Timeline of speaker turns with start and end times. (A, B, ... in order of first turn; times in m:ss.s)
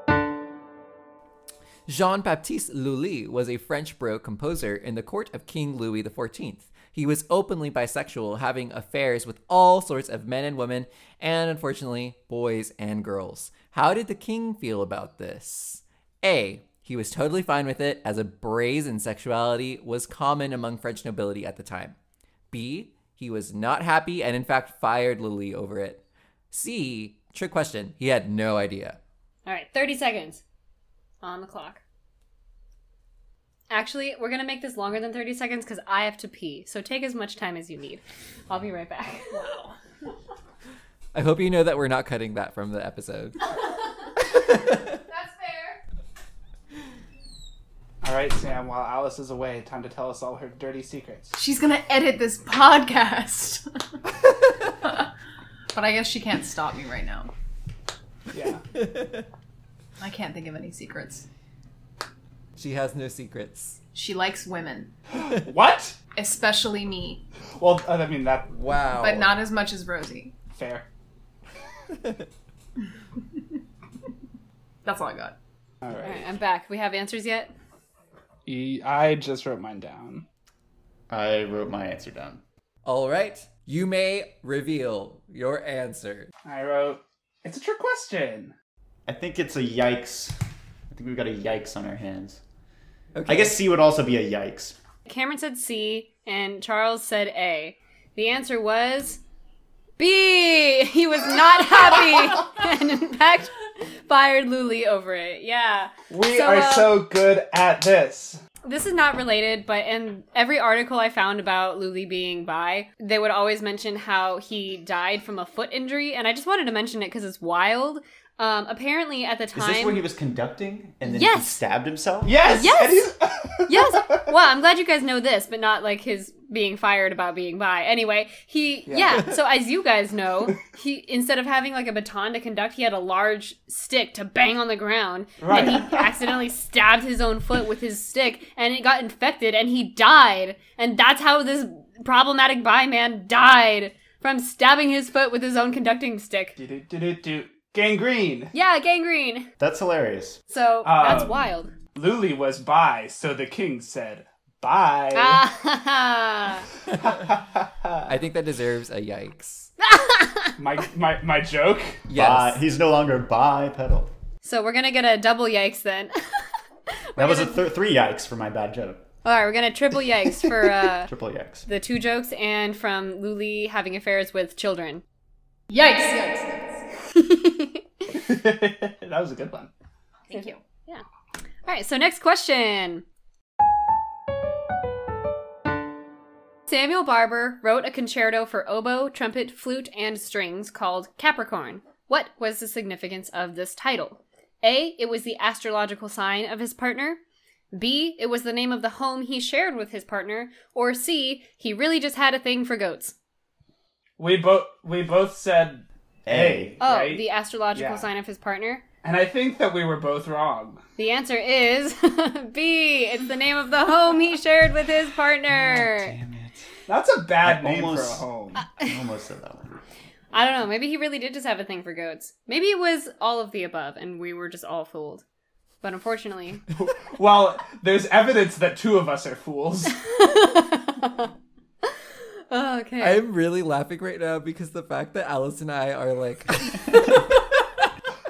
0:01.9-0:22.0 A
0:22.5-0:29.0 A
0:29.5-0:30.4 B
0:31.2-0:31.8 B
0:33.7-0:39.6 B
0:39.3-0:39.8 C
0:41.1-0:43.4 A
0:44.4-0:45.8 B
0:48.0-0:51.3 D
0:51.4-0:53.6 C
0:54.8-0:55.1 C
0:55.7-0:57.3 C
0:58.3-0:58.6 D
0:58.8-0:59.2 A
1:00.0-1:01.3 C
1:02.6-1:03.8 A
1:03.9-1:04.9 C
1:05.3-1:06.0 D
1:06.2-1:07.2 C
1:07.6-1:08.5 D
1:08.5-1:09.3 A
1:09.0-1:10.4 C
1:10.5-1:10.9 D
1:12.0-1:12.2 A
1:14.8-1:15.4 C
1:15.8-1:16.3 D
1:16.0-1:17.5 B
1:18.5-1:20.3 D
1:21.1-1:22.4 E
1:22.8-1:26.3 A
1:26.5-1:28.5 D
1:29.1-1:30.4 E
1:30.9-1:32.4 E
1:33.2-1:33.6 A
1:33.3-1:34.8 E
1:35.1-1:39.2 B
1:40.0-1:47.0 B
1:46.1-1:48.4 D
1:48.6-2:00.0 B
1:59.5-2:02.4 E
2:01.0-2:01.6 B
2:02.2-2:04.3 D
2:02.5-2:03.1 B
2:03.7-2:26.6 B
2:08.9-2:09.3 D
2:15.4-2:15.9 D
2:26.6-2:28.5 D
2:28.5-2:29.5 B
2:29.6-2:30.4 E
2:30.5-2:31.7 B
2:30.8-2:35.5 D
2:35.1-2:36.7 B
2:36.9-2:38.1 D
2:38.1-2:39.7 A
2:39.8-2:40.6 B
2:40.6-2:42.0 D
2:42.1-2:42.6 A
2:42.1-2:44.1 E
2:44.4-2:46.4 B
2:47.1-2:47.6 B
2:47.2-2:49.0 E
2:49.2-2:51.1 B
2:50.8-2:51.7 E
2:51.7-2:55.0 B
2:55.7-2:56.8 C
2:57.2-2:57.8 B
2:58.1-2:59.7 D
3:00.3-3:00.6 C
3:00.3-3:01.0 B
3:01.7-3:03.0 B
3:06.7-3:17.2 B
3:17.7-3:23.2 B
3:24.2-3:28.1 D
3:26.3-3:26.8 E
3:26.8-3:28.8 B
3:29.0-3:30.8 D
3:31.0-3:36.2 B
3:35.5-3:36.7 E
3:36.9-3:38.6 D
3:37.4-3:38.2 E
3:38.6-3:39.0 B
3:38.8-3:39.8 E
3:40.3-3:45.2 B
3:45.8-3:46.6 B
3:46.8-3:50.0 D
3:50.0-3:51.3 B
3:52.5-3:53.2 B
3:53.0-3:57.6 A